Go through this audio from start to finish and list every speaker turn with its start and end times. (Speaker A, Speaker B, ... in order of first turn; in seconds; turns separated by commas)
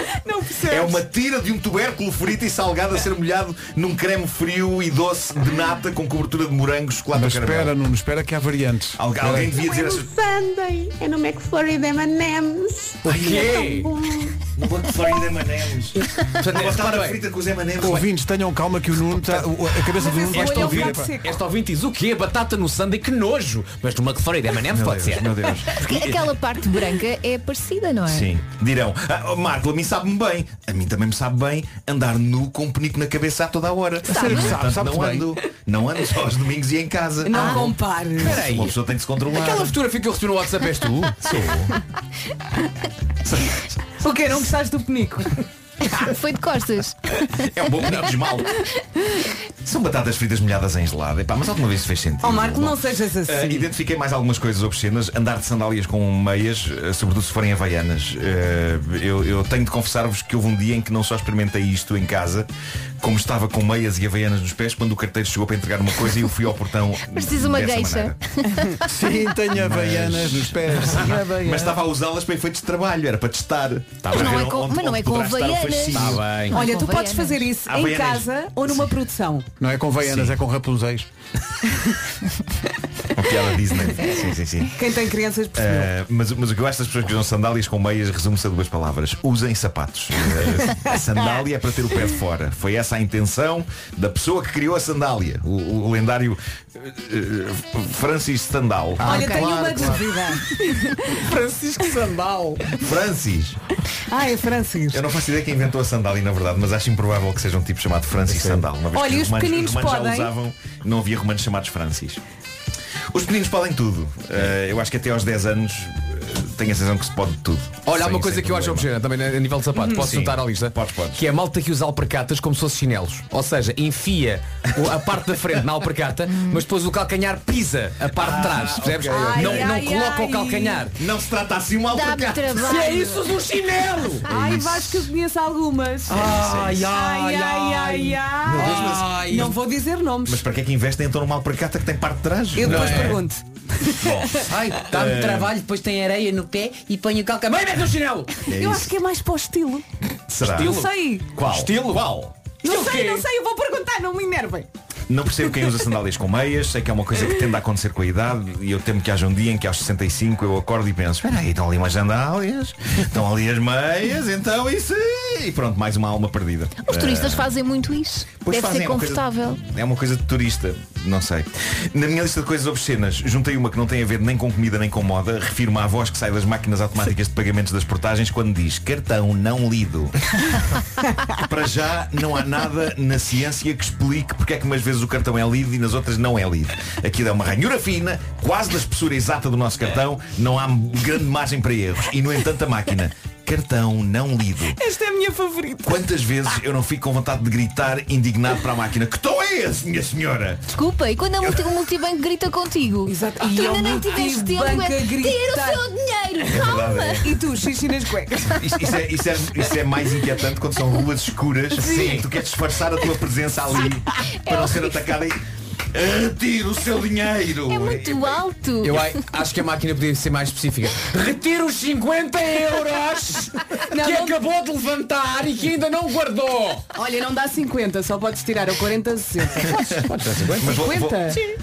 Speaker A: 0.2-1.0, Speaker B: 0.6-7.8, Speaker C: 7.1-9.5, Speaker B: 9.0-10.1, Speaker D: 9.7-13.0, Speaker B: 13.0-13.8, Speaker E: 13.1-13.9, Speaker B: 14.6-18.1, Speaker E: 16.3-17.2, Speaker C: 17.8-21.1, Speaker A: 20.0-21.4, Speaker E: 20.3-25.4, Speaker B: 24.7-26.2, Speaker F: 25.8-28.3, Speaker B: 28.1-39.8, Speaker C: 34.1-35.3, Speaker F: 34.2-34.5, Speaker A: 37.2-38.4, Speaker F: 37.4-37.6, Speaker E: 38.2-41.2, Speaker B: 41.2-41.8, Speaker B: 43.3-43.6, Speaker A: 44.0-45.4, Speaker F: 45.9-47.5, Speaker B: 47.5-48.5, Speaker B: 49.6-62.5, Speaker A: 52.2-53.7, Speaker B: 63.0-68.2, Speaker F: 67.0-68.9, Speaker C: 68.8-71.8, Speaker B: 69.5-76.5, Speaker E: 74.0-74.4, Speaker F: 74.1-77.5, Speaker E: 75.9-76.7, Speaker A: 76.5-79.5, Speaker B: 77.7-78.8, Speaker C: 79.6-81.1, Speaker B: 80.0-80.4, Speaker B: 83.2-84.8, Speaker A: 84.8-85.9, Speaker B: 85.5-99.4, Speaker C: 99.0-100.0, Speaker F: 99.0-99.6, Speaker A: 99.0-101.3, Speaker E: 101.3-102.5, Speaker B: 102.8-103.6, Speaker A: 104.1-105.0, Speaker B: 104.9-112.2, Speaker E: 108.3-108.6, Speaker A: 108.9-110.3, Speaker B: 113.1-118.9, Speaker E: 117.8-130.9, Speaker B: 119.9-121.2, Speaker F: 126.4-126.7, Speaker B: 128.1-129.9, Speaker A: 129.1-130.9, Speaker B: 130.9-132.8, Speaker F: 131.9-133.3, Speaker E: 132.6-134.3, Speaker A: 134.2-140.4, Speaker B: 134.3-135.1, Speaker E: 136.1-139.6, Speaker B: 136.1-136.9, Speaker B: 138.4-139.3, Speaker B: 140.2-143.2, Speaker A: 142.6-144.5, Speaker E: 142.6-143.2, Speaker B: 144.0-145.6, Speaker E: 144.4-148.5, Speaker B: 148.5-148.9, Speaker A: 148.5-149.8, Speaker B: 150.3-152.3, Speaker E: 150.4-153.3, Speaker A: 150.5-151.3, Speaker A: 152.6-154.7, Speaker B: 155.1-167.5, Speaker F: 166.8-169.6, Speaker B: 168.4-180.6, Speaker B: 181.3-194.8, Speaker A: 194.8-196.1, Speaker B: 195.8-200.7, Speaker F: 200.7-207.2, Speaker A: 203.1-205.9, Speaker B: 206.5-207.3, Speaker A: 207.2-208.6, Speaker B: 208.6-215.4, Speaker A: 211.8-212.2, Speaker E: 211.8-212.3, Speaker F: 214.4-215.1, Speaker B: 215.9-218.4, Speaker F: 217.7-219.2, Speaker E: 218.8-226.8, Speaker A: 223.9-224.4, Speaker A: 226.9-229.8, Speaker B: 229.8-231.4, Speaker E: 229.9-230.8, Speaker A: 230.6-231.4